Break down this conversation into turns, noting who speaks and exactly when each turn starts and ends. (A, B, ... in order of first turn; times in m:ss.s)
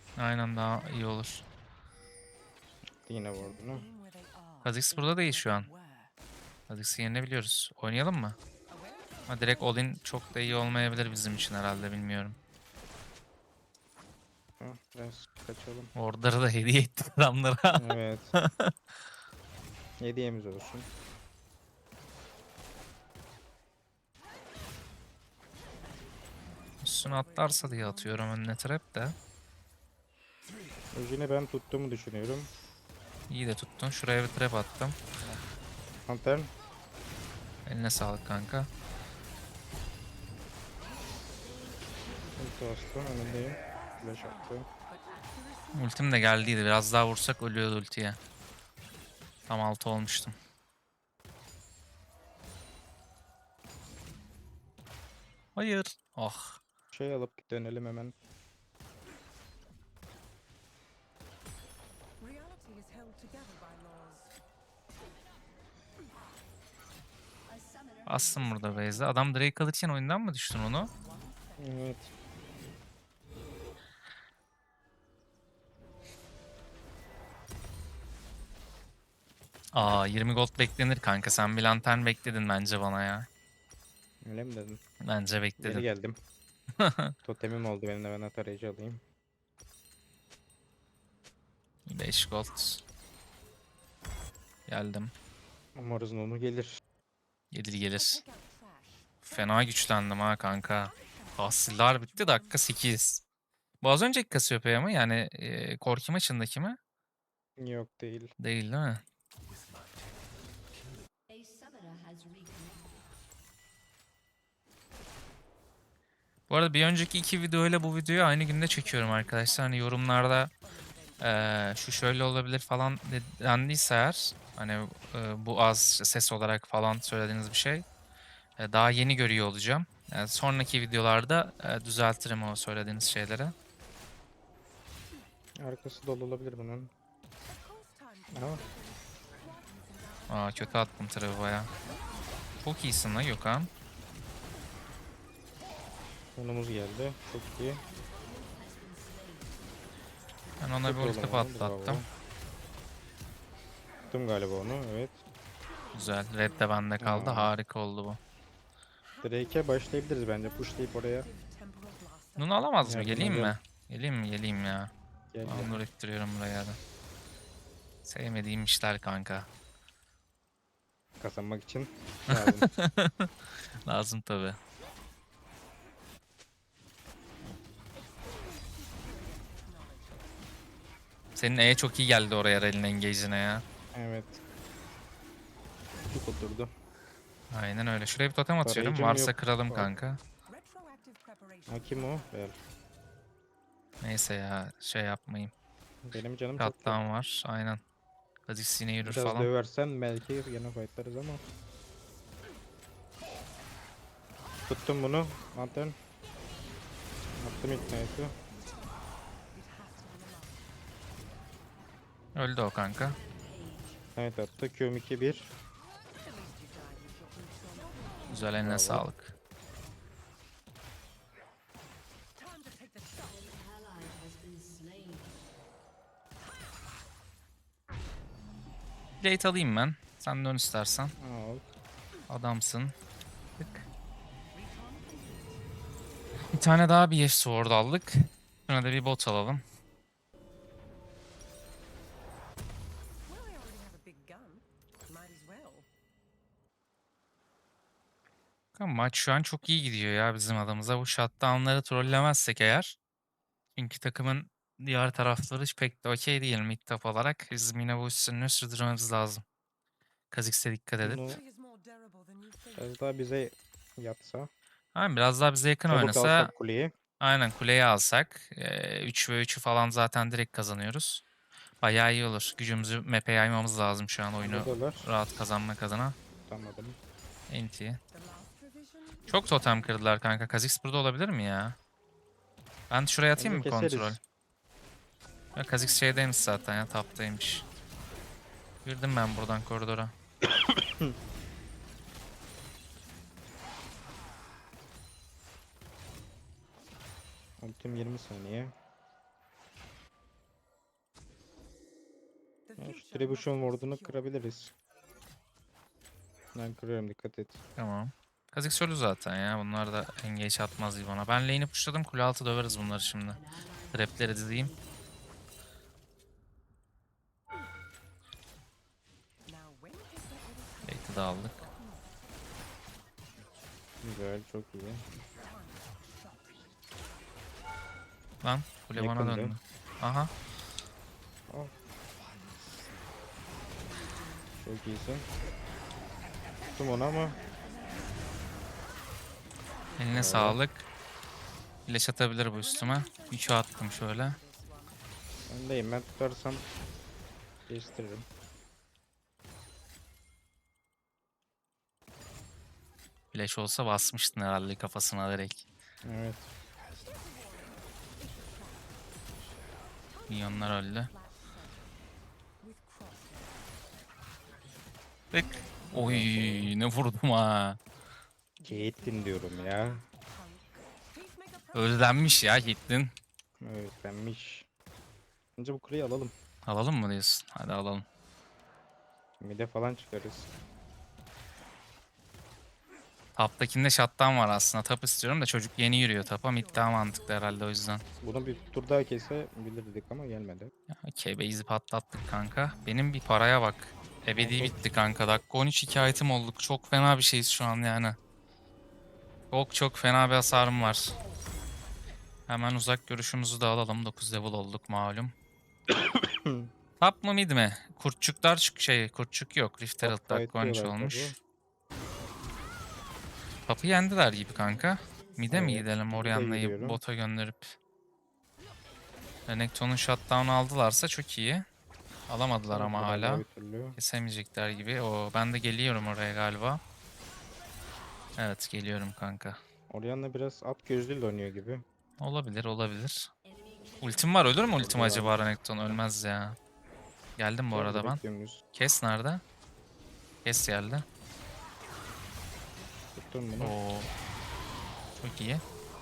0:00.2-0:01.4 A
0:03.0-0:03.9 B
0:03.4-0:06.1 C
0:04.6-0:05.7 A
0:06.7-0:08.4 A
0:08.7-0:11.8 C
0:09.3-0:12.4 A
0:14.6-0:15.9 B
0:16.0-0:18.7 A
0:17.8-0:18.3 B
0:20.0-0:20.9 B
0:26.8-0:28.4 C
0:26.8-0:29.2 A
0:30.9-0:32.5 B
0:33.3-0:35.0 A
0:36.1-0:36.5 B
0:37.7-0:38.7 A
0:41.0-0:46.7 C
0:42.4-0:44.6 B
0:45.8-0:48.2 A
0:49.5-0:50.4 A
0:55.6-0:56.6 A
0:56.9-0:58.1 B
1:02.2-1:04.4 C
1:07.9-1:09.2 C
1:08.1-1:10.9 A
1:10.6-1:12.0 C
1:11.6-1:12.1 B
1:19.7-1:23.3 A
1:21.3-1:22.4 C
1:24.2-1:24.8 B
1:25.0-1:25.9 A
1:25.6-1:26.2 B
1:26.8-1:27.1 A
1:27.2-1:29.0 B
1:31.9-1:32.8 A
1:34.7-1:35.1 A
1:35.8-1:36.8 B
1:37.5-1:38.2 A
1:38.0-1:39.9 C
1:39.3-1:43.2 A
1:40.6-1:42.8 C
1:43.8-1:46.8 A
1:47.6-1:48.3 B
1:48.4-1:49.0 A
1:56.5-2:00.5 A
1:58.1-2:01.8 C
2:01.2-2:07.9 A
2:08.6-2:13.6 A
2:15.6-2:16.9 B
2:17.4-2:22.6 C
2:18.3-2:18.6 B
2:20.3-2:21.7 A
2:22.6-2:23.7 A
2:26.4-2:27.8 B
2:30.6-2:32.0 A
2:30.8-2:32.1 B
2:34.1-2:35.2 B
2:35.9-2:38.2 A
2:36.2-2:36.8 C
2:37.0-2:37.5 B
2:39.0-2:42.6 C
2:39.2-2:41.3 B
2:42.4-2:44.9 A
2:42.8-2:43.6 B
2:45.3-2:45.8 B
2:45.4-2:46.8 A
2:48.0-2:49.5 A
2:51.2-2:52.7 B
2:52.3-2:53.3 A
2:53.8-2:54.6 A
2:58.0-3:00.4 C
3:01.4-3:03.6 A
3:03.9-3:04.4 B
3:06.1-3:06.7 B
3:07.5-3:10.2 A
3:08.6-3:09.9 B
3:10.4-3:12.6 C
3:11.7-3:12.6 B
3:14.0-3:15.5 A
3:16.0-3:17.0 B
3:16.6-3:17.8 A
3:18.5-3:19.5 A
3:19.0-3:21.4 B
3:24.7-3:26.0 B
3:27.4-3:28.4 B
3:28.5-3:30.8 C
3:32.4-3:33.2 A
3:34.2-3:35.5 B
3:36.2-3:38.6 C
3:38.3-3:39.3 A
3:38.6-3:39.1 B
3:42.4-3:43.6 C
3:49.2-3:51.1 A
3:51.2-3:51.7 B
3:52.3-3:53.0 A
3:53.6-3:53.9 A
3:54.5-3:55.7 C
3:56.5-3:59.6 A
4:03.2-4:05.9 C
4:08.8-4:13.0 A
4:13.8-4:19.4 A
4:20.3-4:21.3 A
4:21.0-4:21.4 B
4:21.2-4:23.0 C
4:22.8-4:24.5 B
4:25.0-4:26.5 A
4:25.9-4:26.9 B
4:27.2-4:31.2 A
4:31.8-4:36.2 A
4:34.4-4:35.1 B
4:36.5-4:37.0 B
4:37.5-4:38.0 A
4:38.1-4:40.2 C
4:39.3-4:41.8 A
4:42.9-4:44.2 A
4:43.4-4:44.2 B
4:45.5-4:47.7 C
4:45.6-4:47.6 A
4:48.8-4:50.1 A
4:50.4-4:51.2 B
4:57.6-4:58.7 B
5:02.7-5:04.3 C
5:02.8-5:04.7 B
5:06.6-5:07.6 B
5:07.8-5:14.8 A
5:19.4-5:22.5 C
5:20.8-5:21.6 A
5:24.0-5:25.0 B
5:25.4-5:26.7 C
5:28.4-5:30.3 A
5:29.0-5:29.5 B
5:34.6-5:35.2 B
5:36.7-5:38.7 C
5:36.8-5:37.4 B
5:39.6-5:40.4 C
5:40.0-5:40.9 A
5:40.1-5:40.6 B
5:41.9-5:44.4 A
5:42.5-5:45.0 C
5:45.5-5:46.7 B
5:47.7-5:48.3 B
5:53.3-5:55.7 A
5:56.0-5:56.5 B
5:57.0-5:59.1 C
6:00.1-6:02.0 C
6:00.3-6:01.1 A
6:02.6-6:03.8 C
6:05.3-6:07.8 A
6:05.9-6:06.7 B
6:08.6-6:13.0 C
6:08.6-6:10.0 B
6:11.8-6:13.1 A
6:13.6-6:14.7 B
6:15.6-6:16.3 B
6:16.6-6:18.1 A
6:19.4-6:20.5 B
6:23.4-6:28.0 A
6:25.9-6:28.5 C
6:28.2-6:30.7 B
6:31.0-6:38.2 A
6:34.4-6:34.8 B
6:39.5-6:41.2 A
6:42.5-6:45.3 A
6:45.9-6:46.7 B
6:47.0-6:51.4 A
6:50.0-6:51.4 B
6:53.7-6:57.8 A
6:55.5-6:57.0 B
6:59.5-7:01.7 A
7:02.3-7:03.4 A
7:02.7-7:04.0 B
7:04.0-7:06.8 A
7:04.6-7:05.7 C
7:08.4-7:09.6 A
7:09.9-7:11.8 B
7:12.2-7:13.3 A
7:14.0-7:16.6 A
7:14.7-7:16.0 B
7:17.4-7:18.2 A
7:17.7-7:18.6 B
7:18.7-7:19.4 A
7:20.4-7:21.0 A
7:23.0-7:23.6 C
7:23.2-7:23.8 B
7:23.6-7:24.1 A
7:25.2-7:25.6 A